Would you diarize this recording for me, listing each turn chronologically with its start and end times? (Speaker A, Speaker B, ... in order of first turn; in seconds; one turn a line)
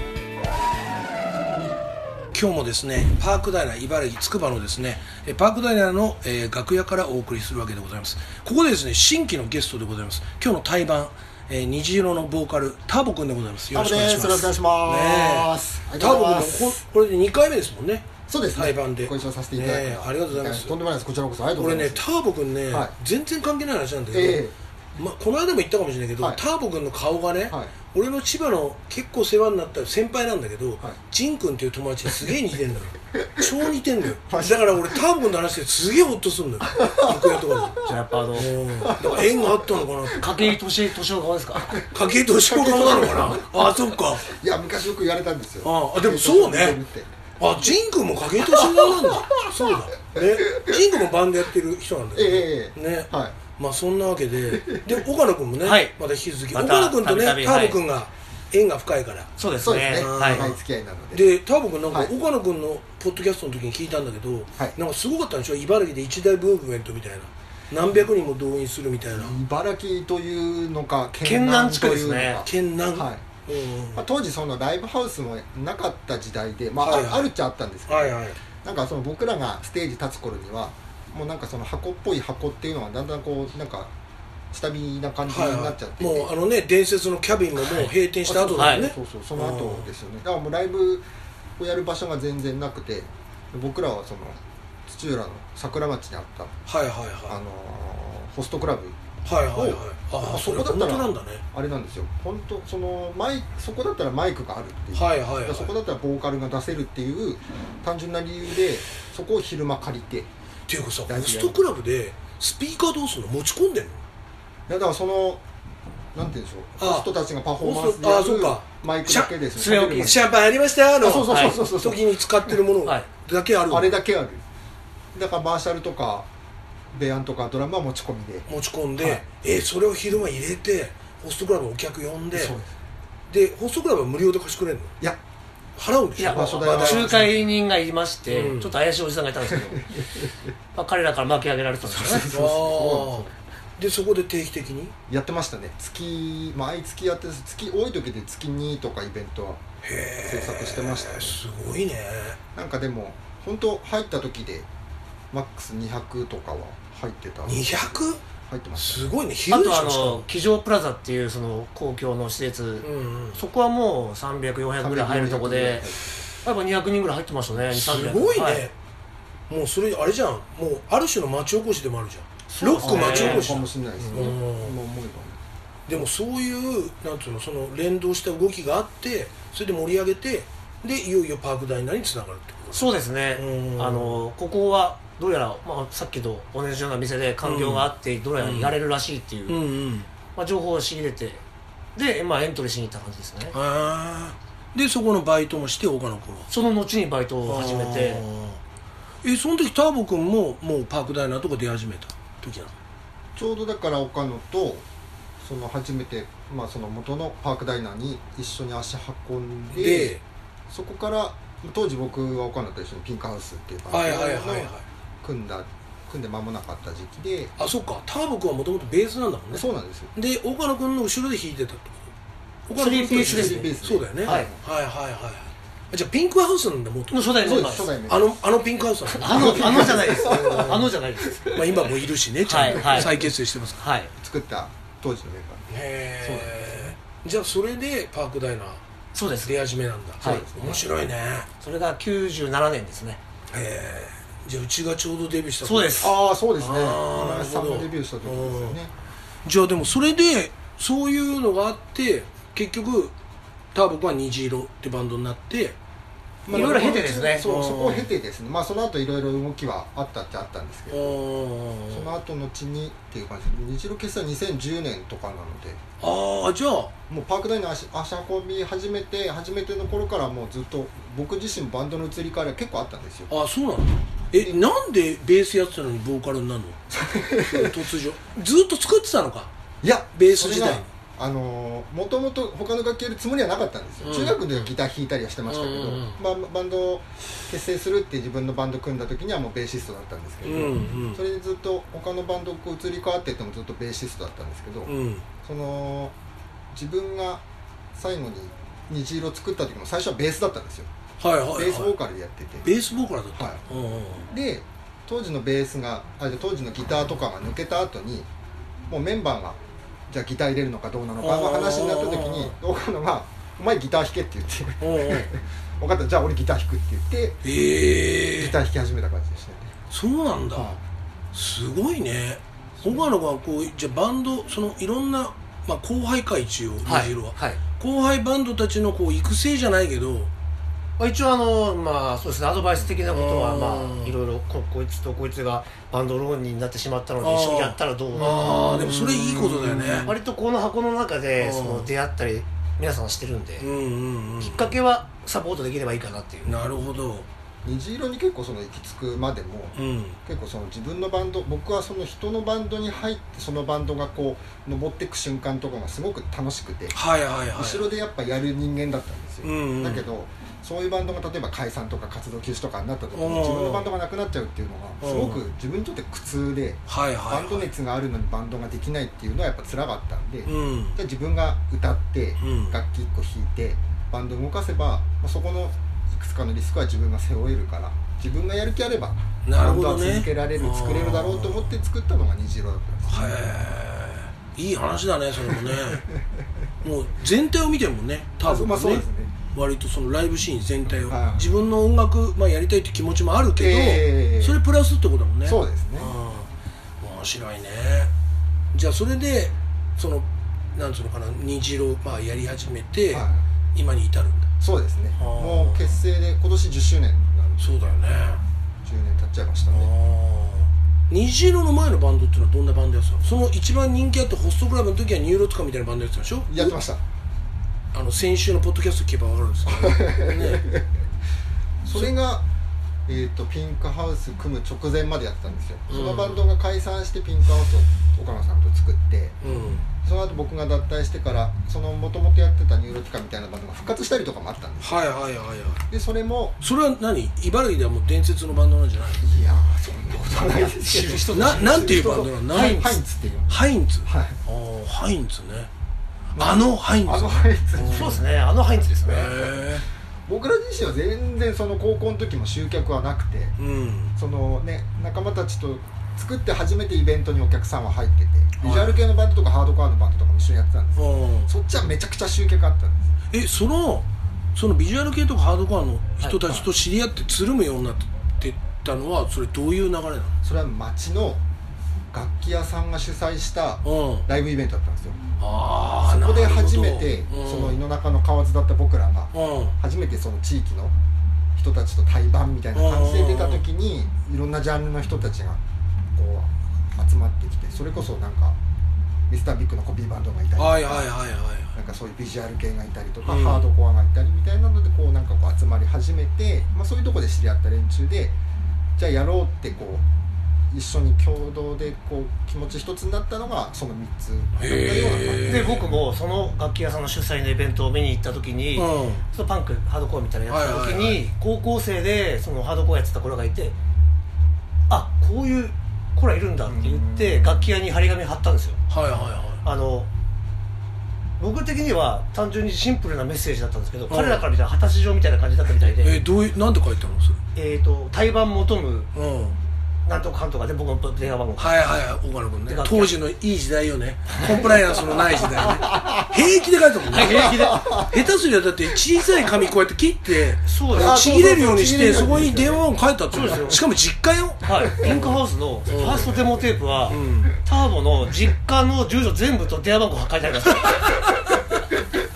Speaker A: 2.3-20.8
Speaker B: 13.7-16.8
Speaker B: 18.3-22.0
Speaker A: 21.6-24.4
Speaker B: 22.7-22.9
Speaker B: 24.1-24.5
Speaker A: 24.9-37.8
Speaker B: 27.5-27.7
Speaker B: 33.1-33.5
Speaker B: 34.3-35.0
Speaker B: 36.6-37.9
Speaker C: 37.8-38.5
Speaker A: 38.3-40.4
Speaker B: 38.8-39.8
Speaker C: 40.1-41.8
Speaker A: 41.9-44.3
Speaker B: 42.4-47.1
Speaker A: 45.6-46.8
Speaker A: 47.4-59.3
Speaker B: 48.4-50.8
Speaker B: 52.1-53.4
Speaker B: 54.5-55.0
Speaker C: 55.6-55.9
Speaker C: 56.5-57.8
Speaker C: 59.4-60.5
Speaker B: 59.6-61.3
Speaker A: 59.9-60.6
Speaker A: 61.1-69.3
Speaker B: 61.9-62.1
Speaker B: 69.1-73.4
Speaker C: 71.2-72.4
Speaker A: 72.4-74.0
Speaker B: 73.9-83.9
Speaker A: 76.8-77.3
Speaker A: 77.9-78.4
Speaker B: 84.5-86.3
Speaker A: 85.2-89.9
Speaker B: 88.2-91.0
Speaker C: 88.6-88.9
Speaker B: 91.6-96.5
Speaker A: 96.7-97.4
Speaker B: 97.3-99.0
Speaker A: 99.2-101.4
Speaker B: 99.5-110.3
Speaker A: 104.9-105.7
Speaker A: 110.7-114.0
Speaker B: 111.0-111.6
Speaker B: 114.7-115.4
Speaker B: 116.1-120.2
Speaker A: 116.8-119.4
Speaker C: 119.5-120.2
Speaker A: 120.0-123.9
Speaker B: 121.0-122.2
Speaker C: 121.2-121.6
Speaker C: 122.8-123.1
Speaker B: 123.7-124.4
Speaker B: 125.1-126.3
Speaker B: 126.9-128.5
Speaker A: 128.5-132.6
Speaker B: 132.3-132.7
Speaker A: 133.3-134.9
Speaker A: 135.8-137.3
Speaker C: 136.2-139.9
Speaker B: 136.2-137.3
Speaker A: 138.3-138.7
Speaker B: 139.5-140.3
Speaker C: 140.7-142.3
Speaker B: 141.8-143.3
Speaker A: 142.3-144.9
Speaker B: 145.1-149.6
Speaker A: 149.8-152.4
Speaker B: 150.2-151.4
Speaker B: 152.5-154.7
Speaker B: 155.3-157.9
Speaker A: 157.5-158.2
Speaker B: 158.5-159.2
Speaker A: 158.7-160.3
Speaker C: 159.5-165.9
Speaker A: 162.8-163.4
Speaker B: 164.8-166.1
Speaker C: 166.4-168.7
Speaker A: 167.7-168.7
Speaker A: 169.5-174.8
Speaker C: 172.5-174.3
Speaker B: 172.8-175.4
Speaker A: 175.9-184.2
Speaker C: 182.7-189.7
Speaker A: 187.4-188.8
Speaker A: 189.5-190.1
Speaker C: 190.3-191.4
Speaker C: 191.9-193.5
Speaker A: 193.5-196.5
Speaker C: 196.5-198.2
Speaker A: 197.4-198.6
Speaker A: 199.2-202.7
Speaker B: 203.3-204.8
Speaker B: 205.4-210.2
Speaker A: 209.7-210.2
Speaker B: 210.7-217.5
Speaker A: 213.9-214.8
Speaker A: 217.6-222.1
Speaker B: 219.5-220.1
Speaker A: 222.7-231.0
Speaker C: 222.7-223.7
Speaker B: 222.8-224.6
Speaker C: 224.2-224.5
Speaker C: 227.1-227.9
Speaker B: 227.4-228.3
Speaker C: 229.2-231.5
Speaker B: 229.2-231.9
Speaker A: 231.5-233.8
Speaker C: 232.4-233.2
Speaker B: 232.7-233.3
Speaker C: 233.8-234.1
Speaker B: 234.2-235.7
Speaker A: 235.7-238.8
Speaker B: 236.2-236.9
Speaker C: 239.1-239.5
Speaker A: 239.4-241.5
Speaker C: 240.2-240.8
Speaker B: 240.2-240.8
Speaker C: 241.6-243.2
Speaker A: 243.5-248.8
Speaker C: 245.6-246.1
Speaker B: 246.0-248.9
Speaker A: 249.4-253.1
Speaker A: 253.7-255.8
Speaker B: 256.4-261.2
Speaker C: 256.5-257.5
Speaker A: 256.5-258.1
Speaker A: 260.9-262.2
Speaker B: 261.9-265.8
Speaker A: 266.0-266.9
Speaker B: 267.1-273.3
Speaker A: 273.3-276.8
Speaker B: 274.3-274.6
Speaker B: 276.9-277.8
Speaker A: 277.4-279.5
Speaker B: 279.8-294.9
Speaker A: 280.1-280.9
Speaker A: 284.0-284.5
Speaker A: 285.5-286.2
Speaker A: 290.4-291.2
Speaker A: 294.9-295.2
Speaker B: 295.4-296.1
Speaker B: 296.7-297.4
Speaker B: 297.9-300.9
Speaker A: 301.2-301.9
Speaker B: 301.5-302.7
Speaker A: 302.6-304.3
Speaker B: 303.4-303.6
Speaker B: 304.3-308.3
Speaker B: 308.9-317.4
Speaker A: 311.2-312.5
Speaker A: 314.8-315.3
Speaker A: 317.4-318.6
Speaker B: 318.4-319.7
Speaker A: 319.9-320.7
Speaker B: 320.5-320.8
Speaker A: 321.3-330.3
Speaker C: 326.8-327.6
Speaker C: 331.0-338.6
Speaker A: 333.1-334.1
Speaker A: 337.2-340.1
Speaker B: 338.1-340.1
Speaker C: 340.0-343.7
Speaker A: 341.4-341.9
Speaker A: 343.6-344.7
Speaker C: 344.4-346.6
Speaker A: 346.4-347.3
Speaker B: 347.6-356.9
Speaker A: 349.7-350.2
Speaker A: 356.9-357.9
Speaker B: 357.5-383.1
Speaker A: 359.4-360.0
Speaker A: 363.1-363.9
Speaker A: 365.0-365.4
Speaker A: 366.9-367.7
Speaker A: 370.4-371.0
Speaker A: 372.4-372.8
Speaker A: 379.4-381.8
Speaker A: 383.1-386.0
Speaker B: 385.5-386.2
Speaker A: 386.8-396.5
Speaker B: 388.4-389.3
Speaker B: 391.0-391.5
Speaker B: 393.5-394.6
Speaker B: 395.4-396.1
Speaker A: 397.0-398.1
Speaker A: 398.7-404.5
Speaker B: 403.1-403.4
Speaker B: 404.6-407.9
Speaker A: 405.2-406.0
Speaker A: 407.6-408.4
Speaker B: 408.8-409.9
Speaker A: 409.7-416.8
Speaker B: 416.5-417.0
Speaker A: 417.9-420.6
Speaker B: 419.6-420.9
Speaker B: 421.8-422.4
Speaker B: 423.1-429.4
Speaker A: 425.9-426.4
Speaker A: 429.4-429.8
Speaker B: 430.0-435.0
Speaker A: 434.8-435.8
Speaker B: 435.9-436.6
Speaker A: 436.6-439.2
Speaker B: 439.2-444.4
Speaker C: 440.3-442.9
Speaker A: 441.3-445.7
Speaker A: 446.4-448.2
Speaker B: 446.4-448.2
Speaker C: 447.8-449.4
Speaker A: 449.0-449.8
Speaker B: 450.3-453.6
Speaker A: 453.6-454.1
Speaker B: 454.1-463.1
Speaker A: 458.6-459.0
Speaker A: 460.9-461.5
Speaker A: 463.3-470.3
Speaker C: 466.2-466.6
Speaker B: 470.4-471.4
Speaker B: 472.1-475.2
Speaker A: 473.8-474.2
Speaker A: 475.4-477.8
Speaker B: 476.0-480.9
Speaker A: 479.3-479.8
Speaker B: 481.6-485.6
Speaker A: 482.7-483.7
Speaker B: 486.1-488.6
Speaker B: 489.3-491.1
Speaker A: 490.6-491.8
Speaker B: 491.7-498.3
Speaker A: 493.2-493.7
Speaker B: 499.0-500.0
Speaker B: 500.7-505.9
Speaker A: 504.6-505.9
Speaker C: 505.4-513.8
Speaker A: 508.7-509.2
Speaker A: 510.5-511.2
Speaker C: 514.9-518.8
Speaker B: 516.6-517.7
Speaker A: 518.9-519.6
Speaker C: 519.6-520.1
Speaker C: 521.4-526.2
Speaker A: 524.1-524.5
Speaker A: 526.0-527.4
Speaker C: 527.5-529.1
Speaker A: 529.1-529.5
Speaker C: 530.0-532.0
Speaker A: 531.6-546.4
Speaker C: 532.6-533.2
Speaker B: 535.5-536.4
Speaker C: 537.1-538.0
Speaker B: 537.2-538.2
Speaker C: 540.6-541.2
Speaker B: 540.9-542.9
Speaker C: 543.3-543.8
Speaker C: 544.6-551.2
Speaker B: 544.8-545.2
Speaker A: 547.1-547.5
Speaker A: 550.9-551.6